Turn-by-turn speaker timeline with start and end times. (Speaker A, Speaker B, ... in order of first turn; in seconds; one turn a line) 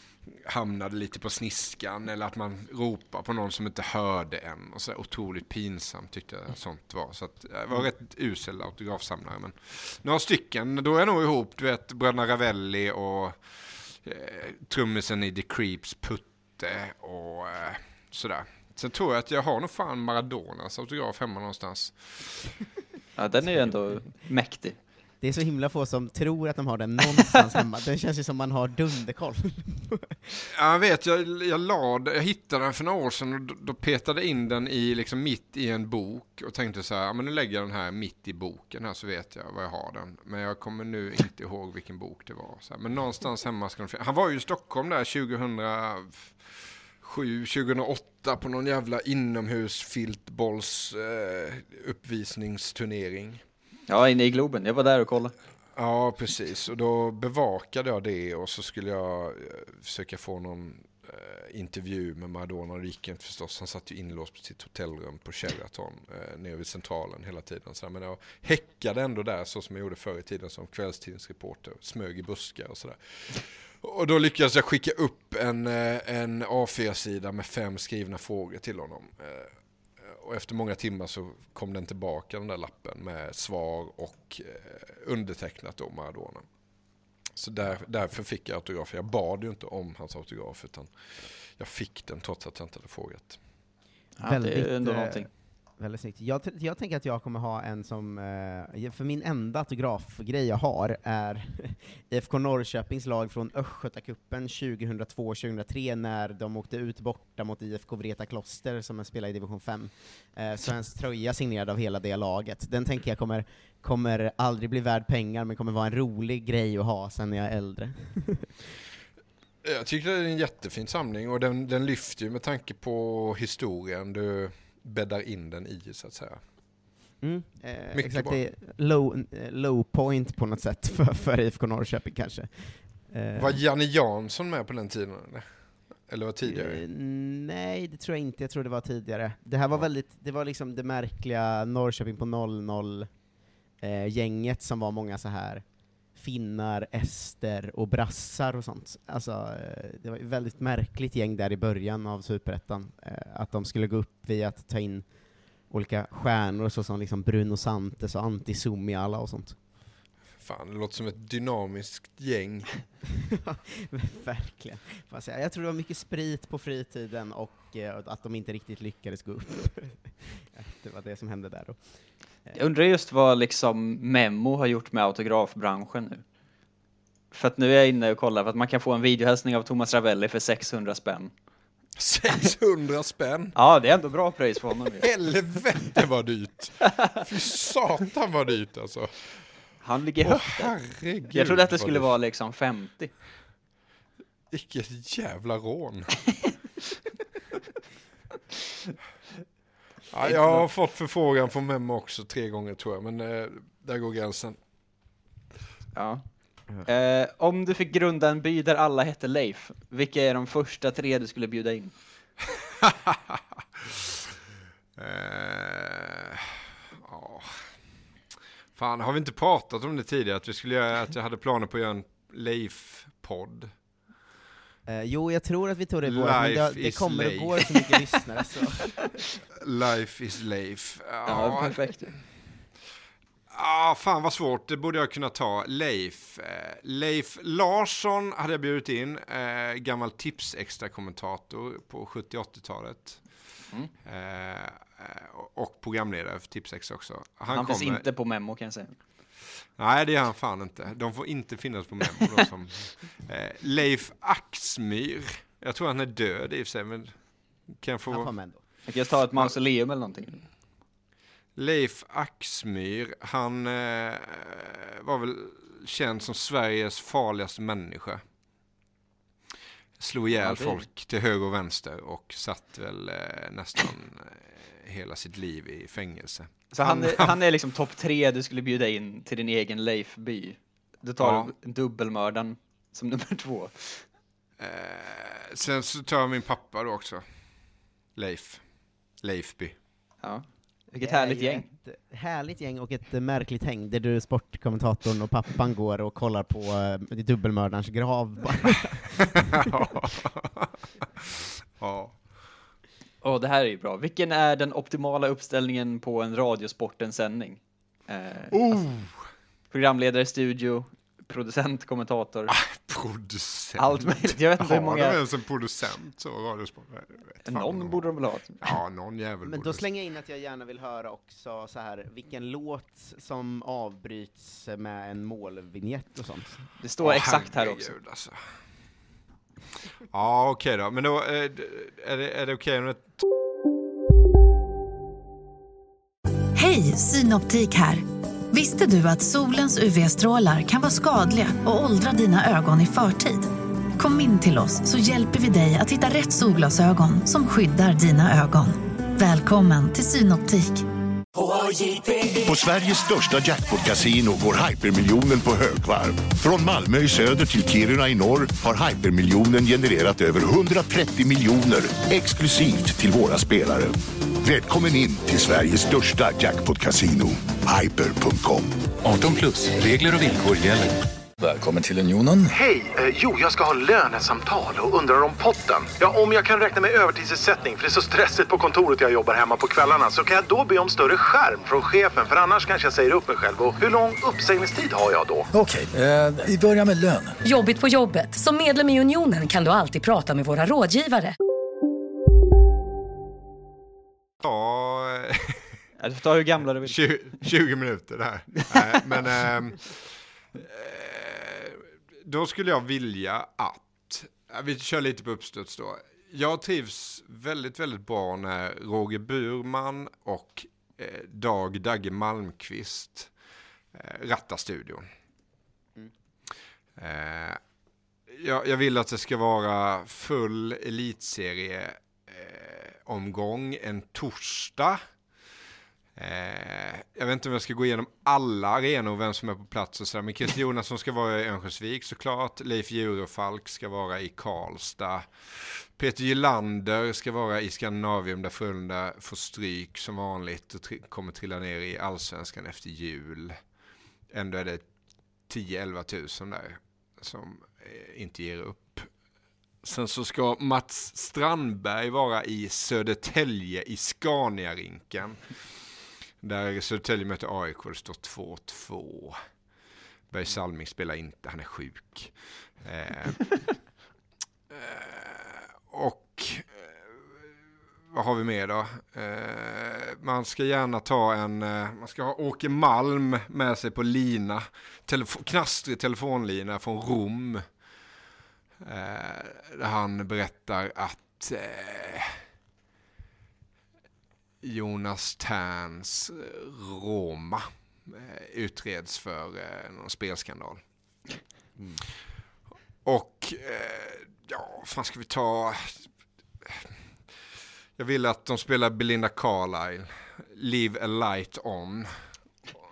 Speaker A: 0.3-22.5
Speaker B: 23.2-24.8
Speaker C: 25.2-30.2
Speaker A: 30.5-53.4
Speaker B: 53.9-55.3
Speaker A: 55.8-86.5
Speaker A: 87.3-93.4
Speaker B: 94.2-95.3
Speaker C: 94.2-118.6
Speaker A: 119.6-126.4
Speaker C: 127.2-133.6
Speaker A: 127.9-128.4
Speaker A: 133.4-135.5
Speaker A: 136.0-136.8
Speaker C: 136.4-143.2
Speaker C: 143.8-155.1
Speaker C: 155.6-159.6
Speaker A: 160.4-162.7
Speaker C: 163.3-171.8
Speaker B: 172.6-176.2
Speaker B: 177.3-181.3
Speaker A: 182.0-183.6
Speaker B: 183.6-185.1
Speaker A: 185.0-189.2
Speaker B: 189.8-190.8
Speaker A: 190.2-192.1
Speaker B: 191.3-193.1
Speaker A: 194.5-196.2
Speaker A: 200.1-204.6
Speaker B: 200.2-200.7
Speaker B: 205.9-206.2
Speaker B: 206.8-211.9
Speaker A: 212.6-214.2
Speaker A: 215.0-217.7
Speaker A: 218.8-223.7
Speaker C: 224.9-229.0
Speaker A: 226.0-227.9
Speaker A: 229.6-231.9
Speaker B: 231.3-232.2
Speaker A: 233.5-243.2
Speaker A: 244.1-248.1
Speaker B: 247.5-248.9
Speaker A: 249.8-257.1
Speaker A: 257.7-258.3
Speaker C: 258.1-258.6
Speaker B: 258.9-260.4
Speaker A: 261.6-268.2
Speaker A: 270.0-277.4
Speaker B: 270.4-270.8
Speaker B: 276.7-284.0
Speaker A: 281.2-281.5
Speaker A: 284.6-287.2
Speaker A: 288.2-288.6
Speaker A: 289.2-289.8
Speaker B: 290.2-291.7
Speaker C: 290.9-299.7
Speaker A: 299.5-302.2
Speaker B: 303.2-308.8
Speaker A: 308.5-309.2
Speaker B: 309.7-312.5
Speaker A: 312.5-319.9
Speaker B: 313.8-315.2
Speaker B: 317.4-318.7
Speaker C: 319.4-326.6
Speaker B: 326.8-327.9
Speaker A: 327.0-328.4
Speaker A: 330.1-333.2
Speaker D: 336.6-350.9
Speaker E: 352.3-368.8
Speaker F: 369.0-372.5
Speaker G: 372.5-385.5
Speaker F: 385.6-387.4
Speaker H: 387.4-391.4
Speaker A: 394.4-395.8
Speaker B: 396.0-397.4
Speaker A: 396.8-413.3
Speaker A: 413.9-415.1
Speaker A: 417.0-417.6
Speaker A: 418.3-425.0
Speaker A: 426.2-443.6
Speaker A: 444.3-444.9
Speaker A: 445.5-449.1
Speaker A: 449.8-455.4
Speaker A: 456.4-459.4
Speaker A: 460.3-463.4
Speaker A: 464.7-467.2
Speaker A: 468.1-477.6
Speaker A: 478.8-482.4
Speaker A: 484.6-490.8
Speaker A: 493.1-496.1
Speaker A: 496.6-496.9
Speaker A: 498.0-502.1